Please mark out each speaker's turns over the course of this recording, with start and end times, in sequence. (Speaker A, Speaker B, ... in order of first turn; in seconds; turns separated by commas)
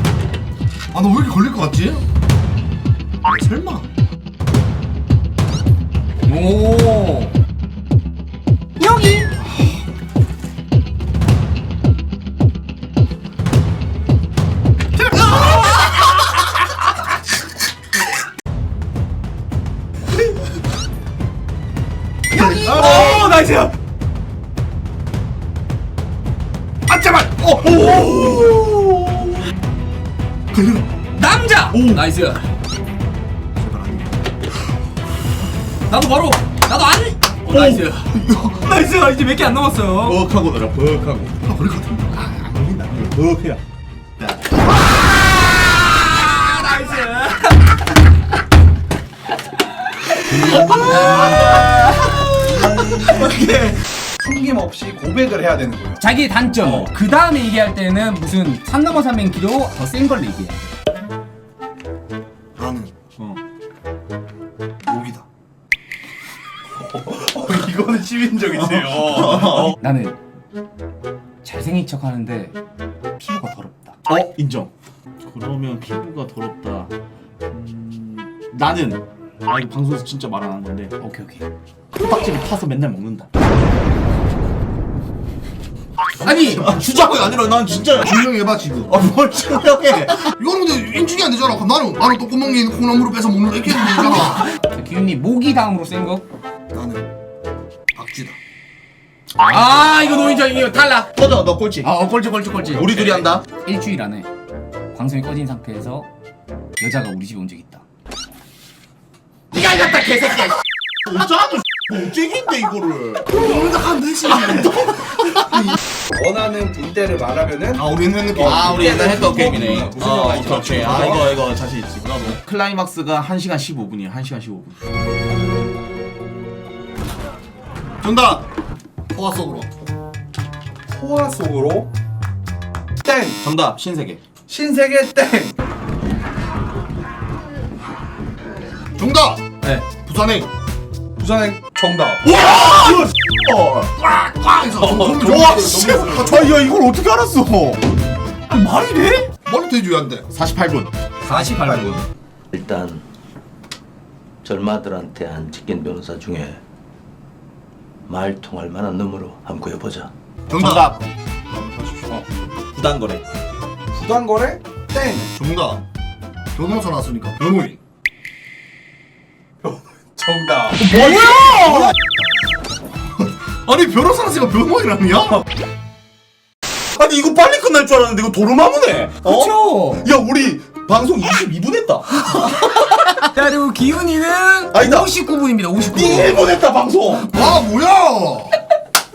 Speaker A: 0.9-2.0, Speaker A: 3.2-3.9, Speaker B: 6.2-7.3, Speaker B: 8.8-9.3, Speaker B: 15.3-15.6, Speaker B: 22.3-23.4, Speaker A: 22.3-23.3, Speaker C: 22.4-23.7, Speaker A: 26.9-28.2, Speaker C: 27.5-29.4, Speaker A: 30.5-30.9, Speaker B: 31.1-32.4, Speaker A: 33.6-34.1, Speaker B: 35.9-40.2, Speaker C: 37.5-37.8, Speaker A: 38.2-38.7, Speaker C: 40.0-41.4, Speaker A: 41.4-43.0, Speaker C: 42.8-43.6, Speaker C: 44.2-44.4, Speaker B: 45.0-47.7, Speaker B: 50.2-53.3, Speaker C: 50.3-53.8, Speaker D: 54.2-56.0, Speaker B: 56.0-60.7, Speaker C: 56.6-56.9, Speaker A: 62.6-62.9, Speaker A: 64.8-65.2, Speaker D: 66.8-69.7, Speaker C: 69.4-69.7, Speaker B: 69.5-70.2, Speaker B: 71.4-72.5, Speaker B: 73.2-74.0, Speaker C: 74.1-74.7, Speaker C: 75.2-76.9, Speaker C: 77.5-80.9, Speaker B: 81.0-81.5, Speaker C: 82.0-83.3, Speaker B: 86.2-86.8, Speaker C: 86.3-88.3, Speaker A: 88.0-89.1, Speaker C: 88.9-90.3, Speaker A: 90.2-94.5, Speaker B: 93.9-96.2, Speaker A: 96.7-97.0, Speaker A: 97.9-98.3, Speaker C: 99.4-100.5, Speaker B: 99.4-101.2, Speaker C: 101.2-101.9, Speaker B: 101.8-104.3, Speaker C: 102.5-103.4, Speaker B: 104.9-106.1, Speaker B: 106.8-107.8, Speaker B: 109.5-110.5, Speaker C: 111.0-113.3, Speaker A: 113.3-115.8, Speaker C: 114.3-115.7, Speaker D: 116.1-117.8, Speaker A: 117.7-119.8, Speaker D: 118.3-121.4, Speaker C: 118.3-124.8, Speaker A: 120.7-121.1, Speaker A: 128.0-128.4, Speaker A: 129.1-129.7, Speaker D: 130.9-131.9, Speaker D: 133.0-133.4, Speaker C: 133.4-134.2, Speaker D: 134.5-135.5, Speaker A: 139.0-140.5, Speaker D: 141.2-142.2, Speaker C: 142.2-143.9, Speaker A: 143.9-146.5, Speaker C: 144.8-147.8, Speaker D: 145.3-146.4, Speaker C: 148.5-149.3, Speaker A: 149.4-150.3, Speaker C: 150.3-150.9, Speaker B: 151.2-152.0, Speaker D: 151.3-152.0, Speaker E: 152.5-153.0, Speaker E: 154.4-156.6, Speaker E: 158.1-160.1, Speaker A: 160.5-160.9, Speaker C: 160.5-161.0, Speaker A: 161.5-162.1, Speaker C: 162.7-163.2, Speaker D: 163.9-165.3, Speaker A: 165.3-165.8, Speaker A: 166.5-167.8, Speaker D: 169.6-170.8, Speaker C: 170.8-171.9, Speaker B: 170.9-171.9, Speaker A: 173.2-175.4, Speaker C: 176.9-183.2, Speaker B: 179.2-180.0, Speaker B: 183.2-186.5, Speaker C: 184.7-185.1, Speaker C: 185.9-187.3, Speaker A: 187.2-188.6